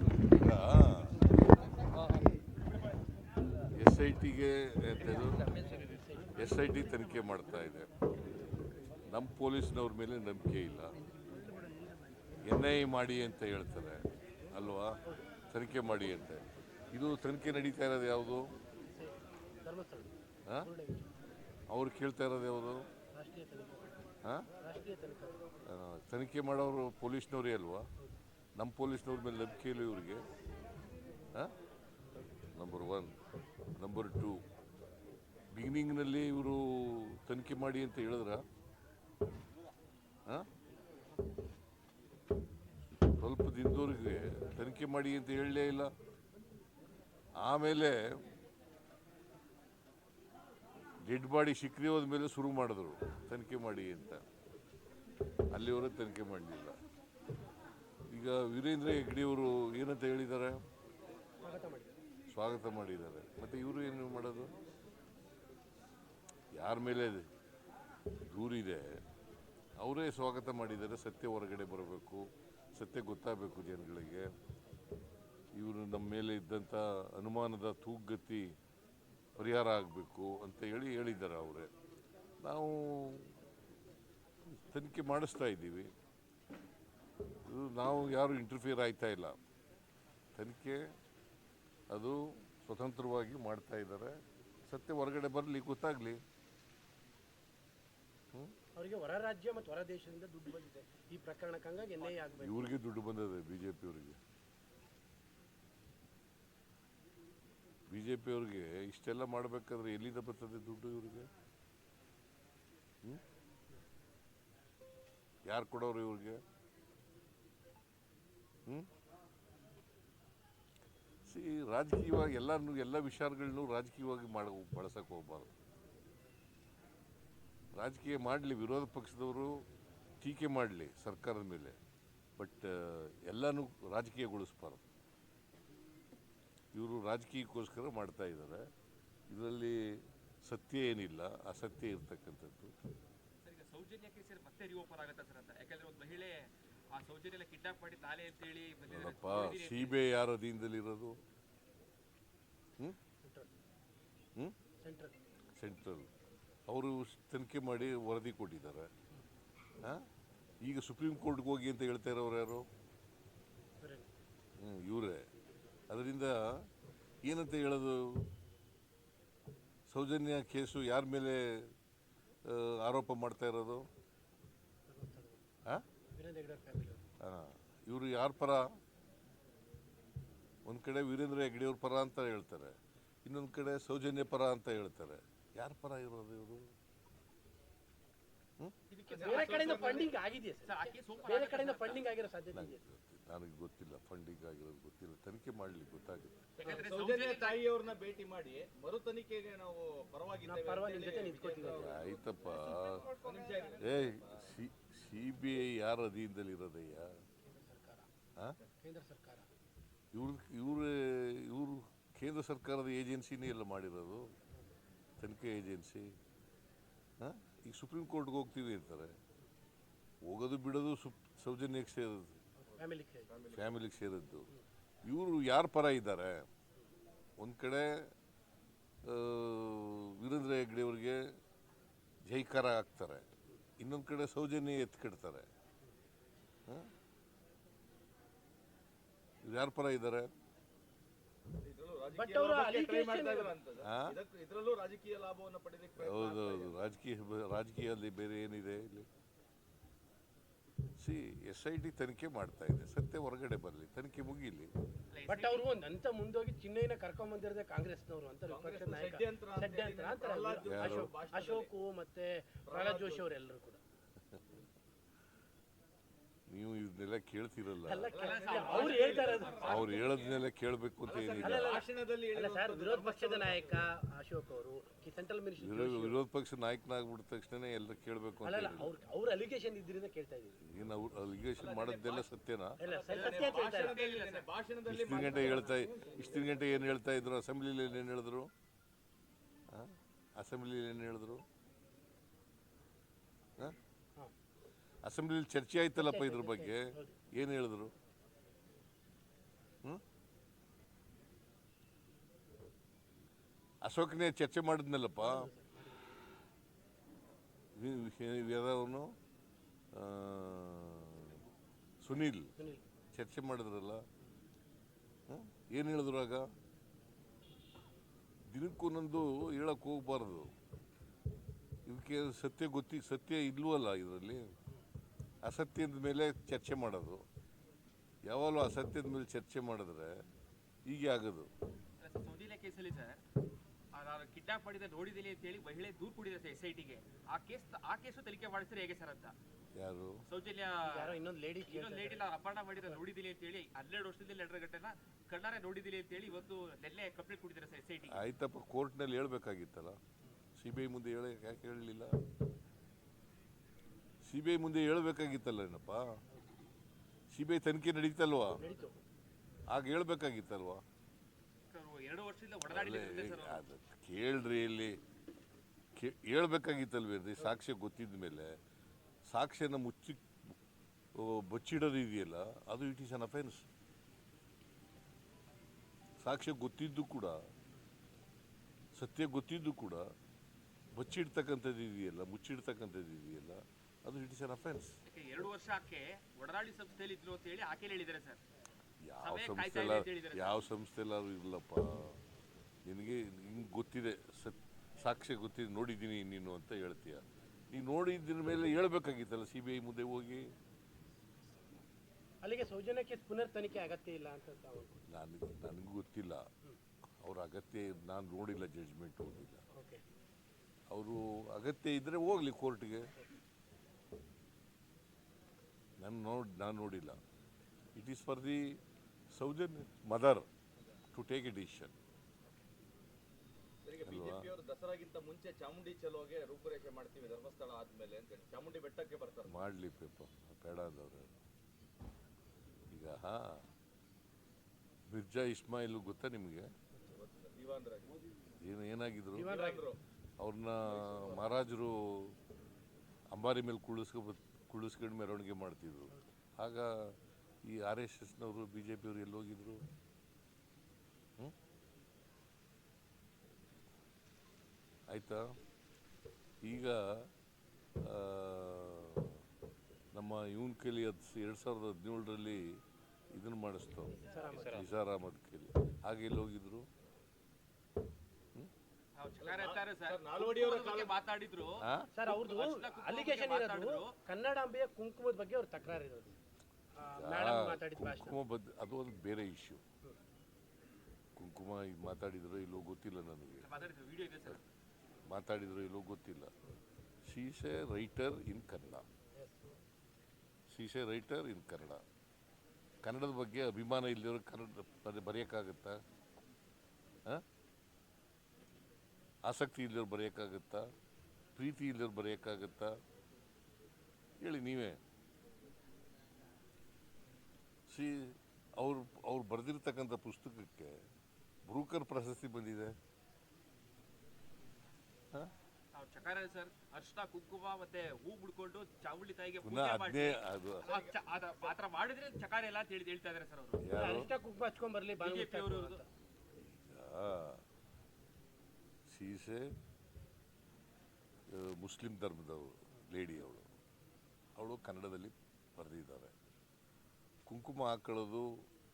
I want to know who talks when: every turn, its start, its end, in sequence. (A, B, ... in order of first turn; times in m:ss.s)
0:00.3-0:01.2 A
0:03.8-0:05.6 A
0:05.5-0:06.3 B
0:06.4-0:07.9 A
0:09.1-0:11.0 A
0:12.4-0:15.0 A
0:15.5-0:18.5 A
0:18.9-0:21.1 B
0:21.7-0:22.9 A
0:23.2-0:24.0 B
0:24.6-0:25.5 B
0:25.7-0:27.9 A
0:28.6-0:30.3 A
0:32.6-0:33.1 A
0:33.8-0:34.4 A
0:35.5-0:38.4 A
0:43.2-0:45.9 A
0:47.4-0:48.2 A
0:51.0-0:54.2 A
0:55.5-0:56.8 A
0:58.1-1:00.7 A
1:01.4-1:02.0 B
1:02.3-1:04.5 A
1:06.5-1:07.3 A
1:08.2-1:09.0 A
1:09.8-1:14.3 A
1:15.6-1:18.6 A
1:19.4-1:21.7 A
1:22.4-1:23.4 A
1:24.5-1:25.9 A
1:27.5-1:29.4 A
1:30.4-1:30.8 A
1:31.9-1:36.2 A
1:38.8-1:42.8 B
1:42.4-1:44.2 A
1:47.9-1:51.3 A
1:55.5-1:56.4 A
2:01.3-2:05.5 A
2:07.8-2:09.6 A
2:10.2-2:11.8 A
2:12.4-2:14.8 A
2:16.7-2:18.7 A
2:19.3-2:22.7 A
2:23.4-2:30.0 C
2:28.9-2:31.2 A
2:33.2-2:33.5 B
2:34.8-2:35.2 B
2:35.6-2:36.1 A
2:36.7-2:38.9 A
2:40.6-2:42.7 A
2:43.8-2:44.1 B
2:44.6-2:45.3 A
2:45.9-2:46.7 A
2:47.2-2:48.3 A
2:49.9-2:51.7 A
2:52.5-2:53.9 A
2:54.9-2:55.4 B
2:56.1-2:57.0 B
2:57.2-2:58.7 A
3:00.7-3:06.7 A
3:08.9-3:10.1 C
3:09.1-3:10.1 D
3:09.2-3:12.8 B
3:10.6-3:12.1 C
3:12.5-3:16.4 A
3:16.6-3:24.5 D
3:16.6-3:17.7 C
3:20.4-3:22.0 B
3:21.6-3:23.1 A
3:23.8-3:27.1 A
3:27.4-3:28.1 B
3:28.8-3:29.5 B
3:30.1-3:34.3 A
3:35.2-3:36.1 A
3:37.2-3:39.2 A
3:40.2-3:42.4 A
3:42.6-3:43.3 B
3:42.8-3:43.8 D
3:43.5-3:44.5 A
3:45.0-3:46.5 A
3:47.4-3:48.1 A
3:49.0-3:51.3 A
3:52.3-3:53.3 A
3:53.8-3:55.5 A
3:59.4-4:00.3 A
4:01.6-4:06.8 D
4:02.1-4:03.6 B
4:03.8-4:04.2 A
4:06.0-4:09.1 A
4:11.0-4:14.7 A
4:15.1-4:15.7 C
4:15.3-4:23.8 B
4:18.5-4:21.7 D
4:20.7-4:21.1 A
4:22.7-4:23.3 D
4:26.5-4:28.1 A
4:27.8-4:30.1 B
4:28.1-4:30.3 D
4:28.2-4:30.0 C
4:29.6-4:31.8 A
4:31.0-4:33.8 D
4:31.4-4:36.2 B
4:35.6-4:38.9 A
4:38.4-4:40.6 B
4:40.6-4:42.8 A
4:41.6-4:42.3 D
4:42.8-4:44.0 B
4:42.8-4:46.9 D
4:43.1-4:44.5 C
4:44.9-4:48.5 A
4:45.1-4:45.8 B
4:49.7-4:51.4 A
4:55.0-4:57.9 A
4:56.0-4:57.2 B
5:03.8-5:05.5 A
5:05.2-5:06.0 B
5:07.8-5:09.1 A
5:09.9-5:11.4 A
5:12.0-5:12.5 A
5:12.6-5:12.8 B
5:13.1-5:14.0 A
5:15.3-5:16.5 A
5:18.5-5:20.5 A
5:21.9-5:24.5 A
5:25.4-5:27.2 A
5:28.3-5:30.2 A
5:30.9-5:31.5 A
5:32.0-5:33.2 C
5:33.9-5:39.4 C
5:39.8-5:40.2 A
5:40.3-5:48.2 C
5:40.8-5:42.3 B
5:48.1-5:50.0 A
5:50.6-5:52.2 A
5:54.2-5:56.2 A
5:57.3-5:58.6 A
5:58.6-5:59.0 B
5:59.7-6:00.8 A
6:01.7-6:03.6 C
6:02.7-6:05.0 A
6:06.0-6:08.6 A
6:09.3-6:10.2 A
6:11.2-6:13.6 A
6:16.2-6:17.4 A
6:19.0-6:20.0 A
6:20.9-6:25.0 A
6:25.1-6:28.4 C
6:29.0-6:32.2 A
6:29.2-6:30.6 C
6:32.8-6:40.5 A
6:42.4-6:45.0 B
6:45.1-6:46.4 A
6:47.2-6:49.6 A
6:49.7-6:50.0 B
6:50.9-6:53.1 A
6:56.0-6:57.2 A
6:58.0-6:58.8 A
6:59.3-7:00.5 A
7:01.1-7:01.9 A
7:03.8-7:09.6 D
7:04.0-7:04.5 A
7:09.5-7:11.3 A
7:12.9-7:13.6 A
7:15.1-7:16.7 A
7:17.1-7:18.2 D
7:18.6-7:19.6 A
7:19.3-7:19.9 B
7:19.4-7:20.0 D
7:20.4-7:22.4 A
7:20.8-7:21.6 D
7:23.3-7:29.8 A
7:35.1-7:35.5 A
7:36.6-7:37.3 A
7:38.0-7:39.4 A
7:40.1-7:42.8 A
7:43.3-7:46.9 A
7:44.2-7:44.8 B
7:44.3-7:44.9 C
7:49.2-7:54.2 C
7:49.4-7:51.2 D
7:51.8-7:52.1 A
7:52.1-7:56.4 B
7:57.0-7:58.4 B
7:57.2-7:59.8 A
8:01.4-8:03.7 A
8:03.6-8:04.7 C
8:05.3-8:06.5 A
8:07.3-8:09.1 A
8:09.4-8:09.6 B
8:10.7-8:12.0 A
8:13.0-8:16.0 A
8:19.4-8:20.9 A
8:21.6-8:23.0 A
8:24.4-8:25.0 A
8:27.9-8:31.0 A
8:31.7-8:33.0 A
8:36.0-8:43.8 C
8:39.6-8:40.9 A
8:40.8-8:41.8 D
8:43.8-8:44.3 A
8:44.0-8:46.1 B
8:45.2-8:46.0 C
8:46.6-8:47.6 A
8:49.1-8:49.7 A
8:51.5-8:53.7 A
8:54.6-8:56.3 A
8:57.5-8:58.7 A